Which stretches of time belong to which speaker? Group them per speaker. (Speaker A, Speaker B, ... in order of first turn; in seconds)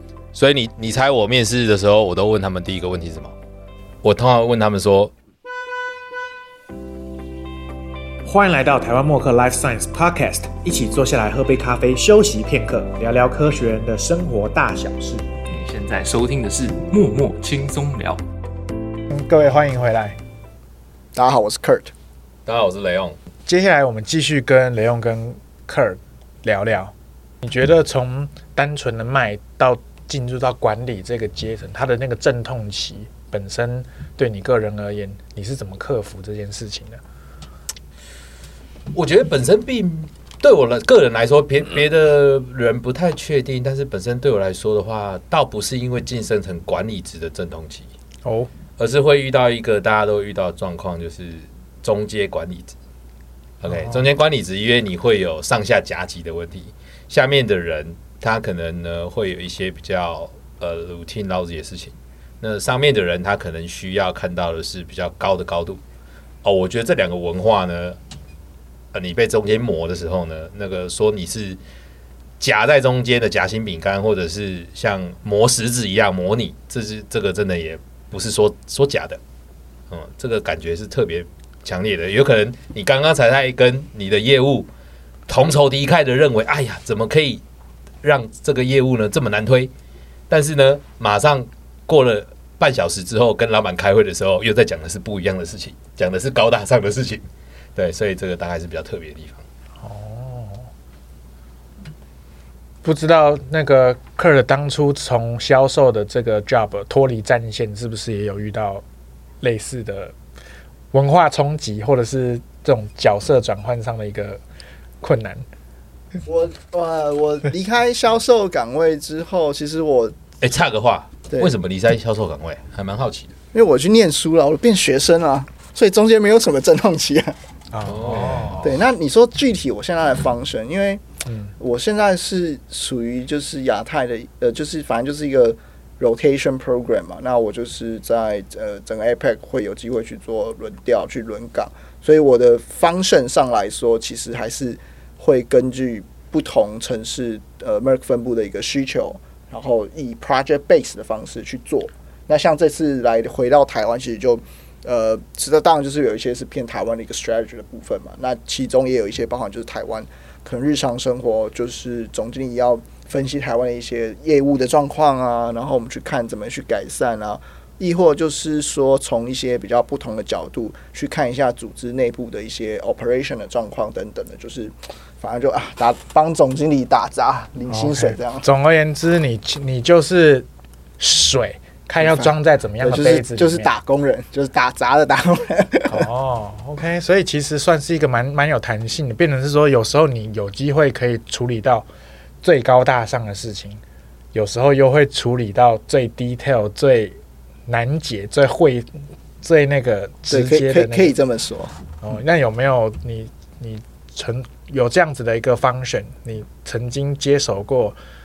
Speaker A: 0.3-3.3, 4.0-5.1, 22.4-23.2, 38.9-47.9, 48.8-52.7, 53.6-65.8, 66.4-68.0, 68.9-71.6, 72.4-79.2, 79.9-84.7, 85.3-87.4, 88.0-89.7, 90.3-99.4, 120.4-123.3, 127.9-128.7
Speaker B: 8.2-15.3, 19.1-20.2, 23.4-37.0, 48.2-48.5, 53.7-54.0, 99.8-100.7, 102.8-108.8, 109.4-110.1, 110.9-114.4, 115.0-115.4, 127.7-128.6, 131.2-131.5, 177.7-180.5, 181.0-183.7, 185.9-191.9, 192.4-193.8, 194.3-201.2, 202.0-208.0
Speaker C: 15.5-18.2
Speaker D: 21.1-21.9, 116.2-120.2, 123.5-127.3, 128.6-131.0, 131.6-178.5, 182.0-186.1, 200.3-201.8